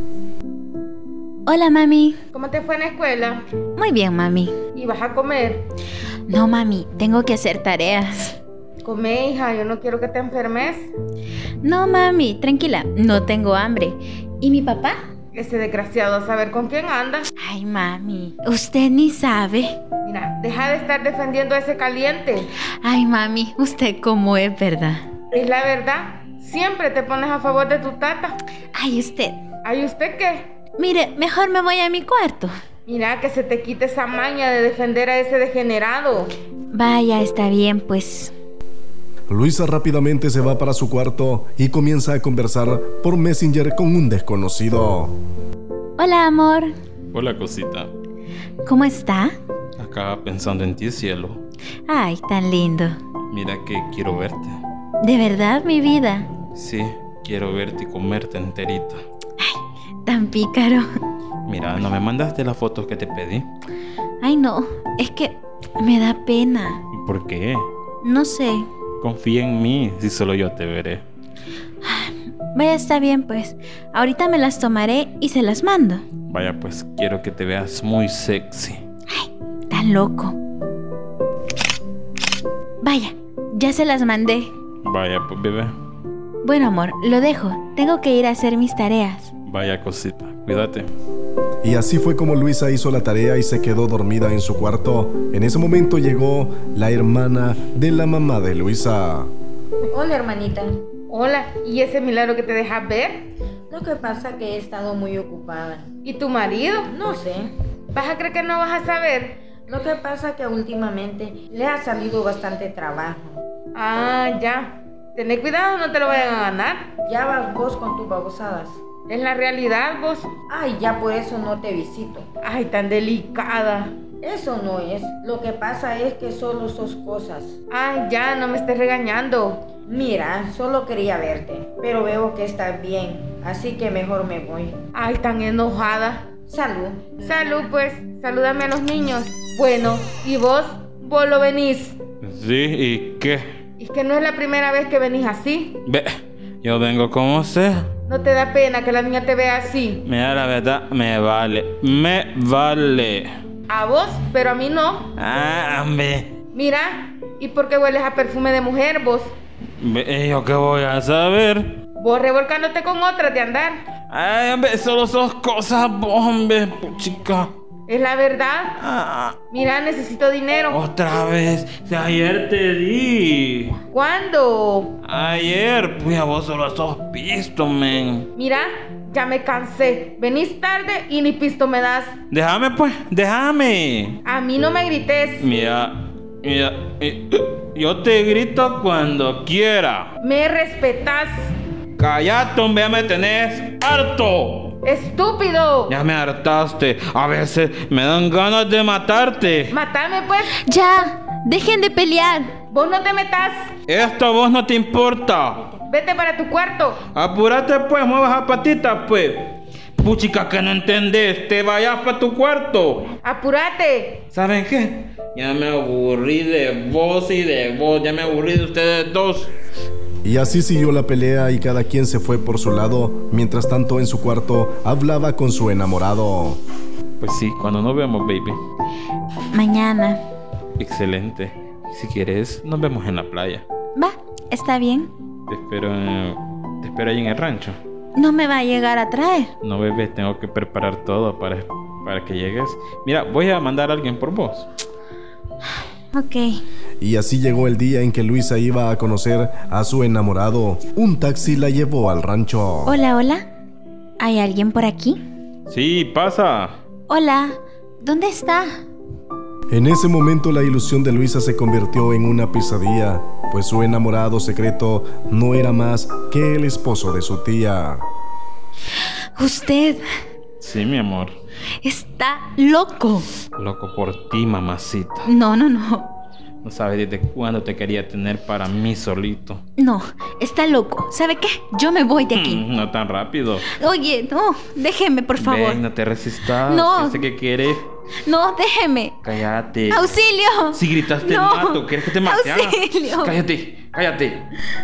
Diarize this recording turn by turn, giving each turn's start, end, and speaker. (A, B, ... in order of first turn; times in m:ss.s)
0:01.5-0:02.2 A
0:02.3-0:03.4 B
0:03.8-0:04.6 A
0:04.8-0:05.6 B
0:06.3-0:08.4 A
0:08.8-0:10.9 B
0:11.6-0:15.0 A
0:15.3-0:17.3 B
0:17.4-0:19.8 A
0:20.0-0:22.5 B
0:22.8-0:25.0 A
0:25.3-0:28.4 B
0:28.7-0:29.4 A
0:29.6-0:30.5 B
0:30.8-0:32.5 A
0:32.9-0:36.3 B
0:36.7-0:38.3 A
0:39.3-0:45.2 C
0:46.0-0:46.7 A
0:47.1-0:47.9 D
0:48.6-0:49.4 A
0:49.8-0:51.4 D
0:51.9-0:53.0 A
0:53.3-0:54.6 D
0:55.0-0:56.3 A
0:56.5-0:59.0 D
0:59.4-1:00.8 A
1:01.5-1:03.5 D
1:04.2-1:06.8 A
1:06.9-1:07.7 D
1:08.0-1:08.7 A
1:09.0-1:11.0 D
1:11.8-1:16.0 A
1:16.3-1:18.8 D
1:19.1-1:20.4 A
1:22.8-1:24.5 A
1:24.8-1:25.8 D
1:26.4-1:29.3 A
1:29.5-1:30.9 D
1:31.6-1:39.3 C
1:39.8-1:40.9 E
1:41.1-1:43.3 B
1:43.7-1:45.9 E
1:46.0-1:46.9 B
1:46.9-1:47.5 E
1:47.9-1:49.4 B
1:49.7-1:53.4 E
1:53.8-1:56.9 B
1:57.1-1:58.8 E
1:59.1-2:00.3 B
2:00.5-2:02.3 E
2:02.4-2:04.0 B
2:04.2-2:07.6 E
2:07.7-2:09.7 B
2:09.9-2:14.8 E
2:14.9-2:16.3 B
2:16.5-2:17.2 E
2:17.1-2:22.0 B
2:22.2-2:23.4 D
2:23.8-2:25.8 B
2:25.9-2:27.9 D
2:28.1-2:30.0 B
2:30.0-2:33.3 D
2:33.7-2:35.1 B
2:35.2-2:36.3 D
2:36.5-2:39.3 B
2:39.8-2:41.8 D
2:42.0-2:43.8 B
2:44.1-2:47.5 D
2:47.9-2:48.8 B
2:48.8-2:49.4 D
2:49.5-2:50.8 B
2:50.7-2:53.8 D
2:53.9-2:54.9 B
2:55.0-2:58.3 D
2:58.4-3:02.2 B
3:02.3-3:04.2 D
3:04.2-3:05.5 B
3:05.4-3:10.1 D
3:10.2-3:11.5 B
3:12.0-3:14.8 D
3:14.8-3:15.9 B
3:15.9-3:19.8 D
3:19.7-3:20.6 B
3:20.5-3:22.5 A
3:22.7-3:23.7 B
3:23.9-3:25.7 D
3:25.9-3:27.0 B
3:27.1-3:33.1 D
3:33.2-3:34.2 B
3:34.3-3:39.5 D
3:40.2-3:46.6 C
3:47.2-3:48.6 D
3:49.5-3:50.2 A
3:50.8-3:53.6 D
3:54.0-3:55.1 A
3:55.5-3:57.8 D
3:58.2-3:59.5 A
3:59.6-4:04.7 D
4:06.1-4:06.6 A
4:07.0-4:13.0 C
4:12.9-4:13.5 A
4:14.2-4:15.2 A
4:15.7-4:16.8 D
4:17.1-4:18.8 A
4:19.7-4:28.0 C
4:29.4-4:30.0 A
4:30.6-4:31.4 D
4:31.8-4:33.3 A
4:33.6-4:35.3 D
4:35.2-4:36.1 A
4:36.6-4:39.6 D
4:39.8-4:42.6 A
4:42.3-4:43.7 D
4:43.7-4:45.8 A
4:45.4-4:47.9 D
4:46.6-4:47.2 A
4:48.2-4:49.2 A
4:49.2-4:50.2 D
4:49.9-4:53.4 A
4:50.7-4:54.5 D